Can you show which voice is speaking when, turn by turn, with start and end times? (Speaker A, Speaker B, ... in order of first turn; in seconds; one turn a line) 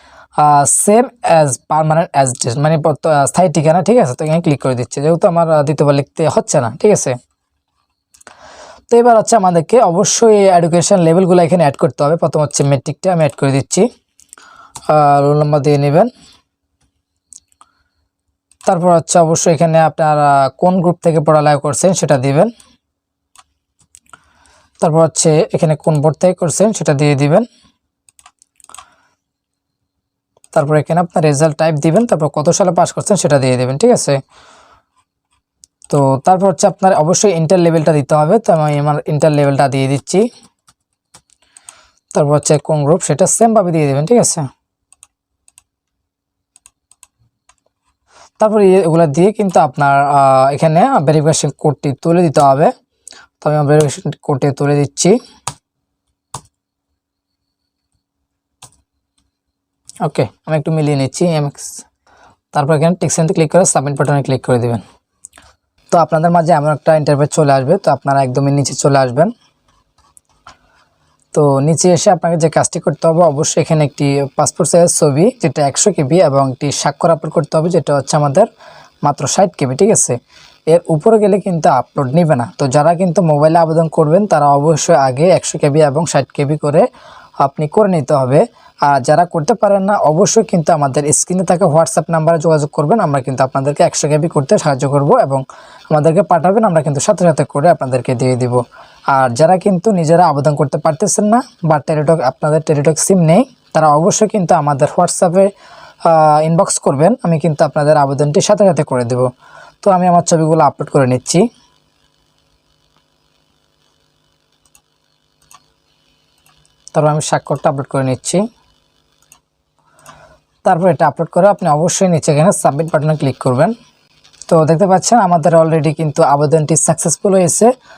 Speaker A: 0.4-7.1
Speaker A: 8.9-13.9
Speaker A: 14.9-16.1
Speaker A: 18.6-22.5
Speaker A: 24.8-27.5
Speaker A: 30.5-34.2
Speaker A: 35.9-40.2
Speaker A: 42.1-44.5
Speaker A: 48.4-52.7
Speaker A: 53.4-55.1
Speaker A: 60.0-61.8
Speaker A: 62.5-64.8
Speaker A: 65.9-69.3
Speaker A: 71.3-78.5
Speaker A: 79.0-80.2
Speaker A: 80.7-86.8
Speaker A: 87.4-105.5
Speaker A: 106.0-109.3
Speaker A: 109.8-111.4
Speaker A: 116.9-118.4
Speaker A: 120.7-123.7
Speaker A: 124.5-127.7